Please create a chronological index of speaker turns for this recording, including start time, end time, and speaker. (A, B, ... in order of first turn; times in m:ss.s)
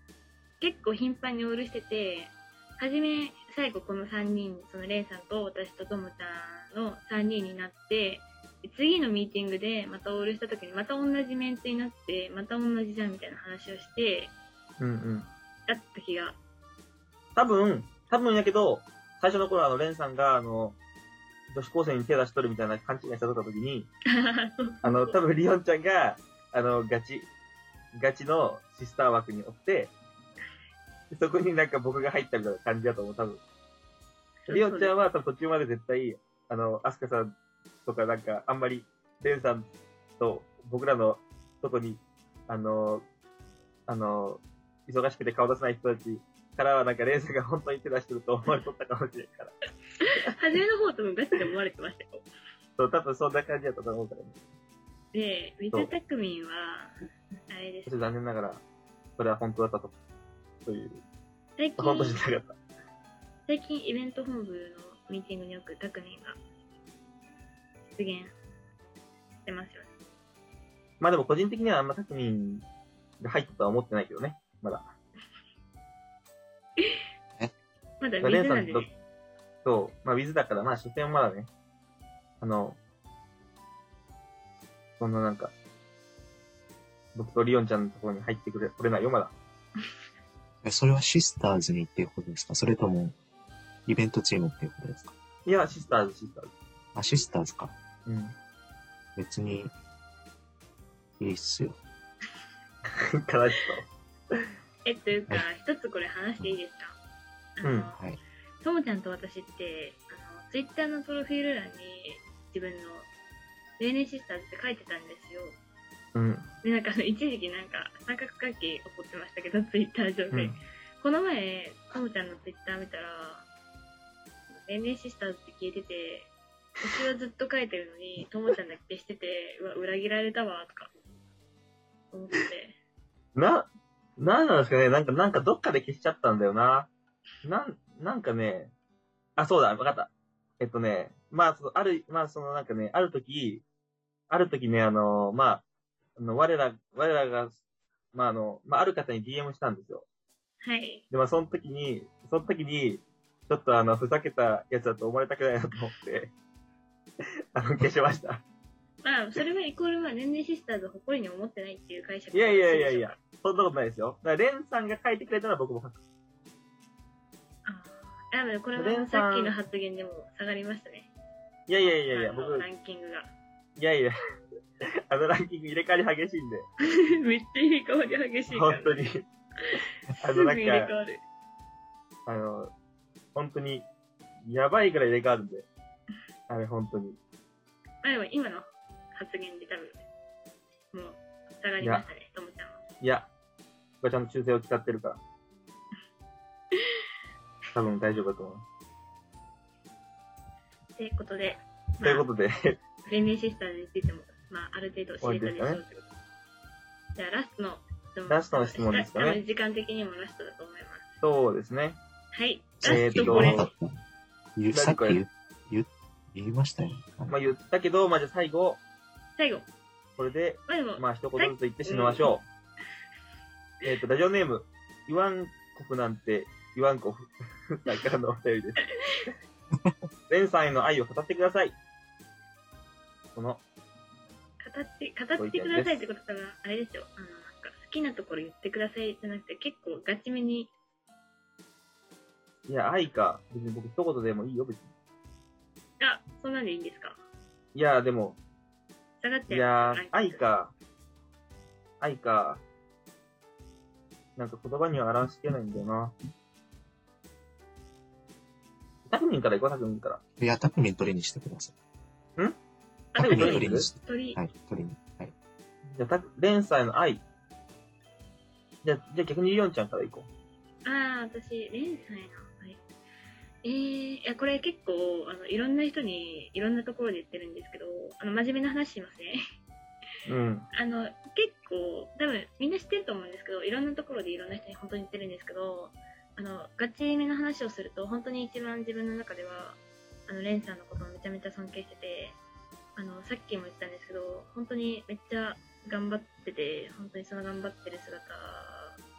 0:00.6-0:14.3 A
0:14.8-0:15.3 B
0:15.7-0:16.4 A
0:17.4-0:20.8 B
0:21.5-0:23.9 B
0:24.1-0:25.2 A
0:24.8-0:27.3 B
0:27.9-0:29.9 B
0:31.1-0:33.4 B
0:34.5-0:34.9 A
0:34.5-0:37.3 B
0:37.8-0:43.1 B
0:43.9-0:50.2 B
0:50.0-0:52.2 A
0:52.8-0:54.4 B
0:55.1-0:56.9 A
0:57.5-0:58.0 A
0:57.9-0:58.6 B
0:59.2-1:00.0 B
1:00.7-1:01.0 B
1:01.6-1:02.2 A
1:01.8-1:02.6 B
1:03.5-1:06.4 A
1:07.8-1:08.3 A
1:09.5-1:09.9 A
1:11.0-1:12.6 B
1:13.2-1:14.9 B
1:18.0-1:18.9 A
1:18.2-1:18.9 B
1:19.6-1:21.5 B
1:22.4-1:22.8 B
1:25.0-1:25.5 B
1:27.2-1:29.3 B
1:30.6-1:33.2 C
1:33.9-1:35.1 C
1:35.5-1:36.5 B
1:37.0-1:37.7 C
1:38.1-1:38.4 B
1:39.2-1:39.7 C
1:41.2-1:41.8 C
1:43.0-1:43.9 B
1:44.8-1:47.0 A
1:47.6-1:48.0 A
1:47.6-1:47.9 B
1:48.6-1:53.1 A
1:53.8-1:55.6 A
1:56.2-1:56.5 B
1:56.6-2:03.5 A
2:00.3-2:00.6 B
2:04.5-2:10.9 A
2:12.1-2:12.8 A
2:13.4-2:16.9 B
2:17.4-2:18.7 B
2:19.4-2:23.6 B
2:24.3-2:25.6 B
2:26.2-2:27.6 B
2:28.1-2:30.0 B
2:30.6-2:31.0 A
2:31.1-2:36.3 B
2:37.6-2:38.4 B
2:39.0-2:43.2 A
2:42.3-2:46.0 B
2:47.7-2:51.1 A
2:48.8-2:49.6 B
2:51.7-2:52.7 B
2:52.1-2:53.3 A
2:53.8-2:54.1 B
2:55.1-2:56.7 B
2:57.1-2:59.0 A
2:58.5-2:59.2 B
3:00.2-3:00.9 B
3:00.2-3:01.2 A
3:02.3-3:02.7 B
3:03.4-3:03.9 B
3:04.5-3:05.7 B
3:06.5-3:07.2 B
3:08.0-3:10.0 A
3:10.9-3:12.8 A
3:11.8-3:12.1 B
3:13.0-3:13.3 B
3:14.0-3:15.2 B
3:17.7-3:18.7 B
3:21.0-3:22.3 A
3:22.0-3:22.8 B
3:23.0-3:26.1 A
3:25.2-3:25.8 B
3:27.2-3:31.1 A
3:28.3-3:29.4 B
3:31.2-3:32.0 B
3:32.3-3:33.7 A
3:32.8-3:33.9 C
3:32.8-3:33.7 B
3:34.6-3:37.4 C
3:34.7-3:35.2 B
3:37.3-3:38.8 B
3:39.4-3:39.7 A
3:40.2-3:42.4 B
3:40.7-3:42.3 A
3:43.8-3:48.9 B
3:50.3-3:51.8 B
3:53.4-3:53.6 B
3:54.6-4:00.7 A
3:55.4-3:56.0 B
4:02.7-4:04.9 B
4:06.0-4:07.2 A
4:07.8-4:08.4 B
4:09.2-4:10.4 A
4:09.5-4:10.7 B
4:12.0-4:12.6 B
4:14.4-4:16.1 B
4:19.1-4:20.2 B
4:20.4-4:21.7 C
4:23.2-4:24.4 A
4:23.2-4:23.9 B
4:23.2-4:25.3 C
4:25.9-4:27.2 B
4:28.8-4:30.3 B
4:30.8-4:32.8 A
4:33.6-4:39.4 A
4:40.3-4:40.7 B
4:40.7-4:52.4 A
4:53.0-4:59.0 A